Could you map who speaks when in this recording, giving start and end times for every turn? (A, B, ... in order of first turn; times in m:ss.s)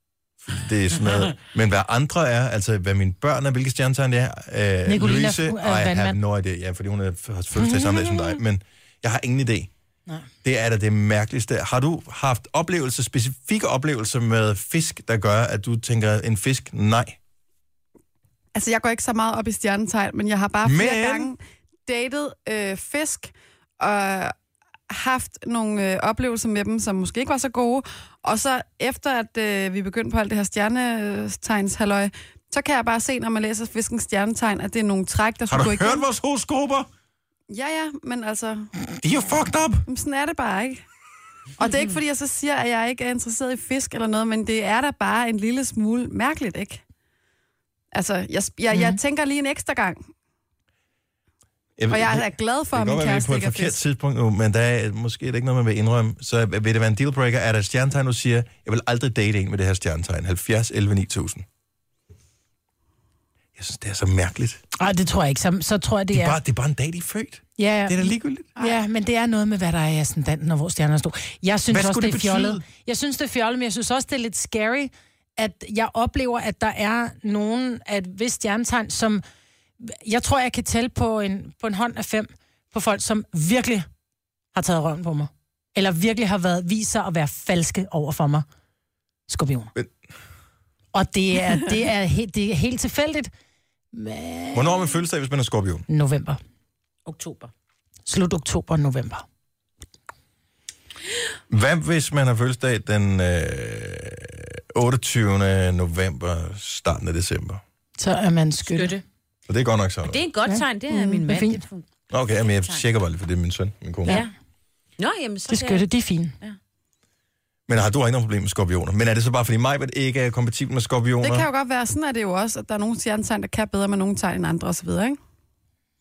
0:00.4-0:09.7 A
0:04.8-0:06.2 B
0:07.6-0:08.4 B
0:10.4-0:17.2 A
0:18.5-0:24.3 C
0:20.6-0:21.3 A
0:24.9-0:36.0 C
0:35.5-0:36.9 A
0:37.5-0:38.7 C
0:39.0-0:39.8 A
0:39.9-0:40.8 C
0:41.6-0:46.8 C
0:47.9-0:50.0 C
0:48.7-0:49.0 B
0:51.8-1:01.4 A
0:51.9-0:53.8 C
1:03.6-1:04.6 A
1:04.8-1:06.4 B
1:06.1-1:08.5 A
1:07.6-1:19.2 B
1:11.7-1:12.6 A
1:19.8-1:23.9 B
1:24.5-1:28.4 B
1:29.3-1:29.7 B
1:30.9-1:33.3 B
1:33.9-1:34.8 B
1:34.5-1:35.8 A
1:35.9-1:36.4 B
1:37.0-1:37.5 D
1:38.0-1:39.2 B
1:41.5-1:47.6 A
1:48.0-1:49.0 B
1:48.7-1:49.0 D
1:49.5-1:50.2 A
1:50.1-1:51.8 D
1:50.5-1:51.6 B
1:52.1-1:54.2 A
1:52.4-1:52.8 D
1:55.0-1:55.8 D
1:55.5-1:56.3 B
1:57.7-2:01.4 A
2:01.2-2:05.2 C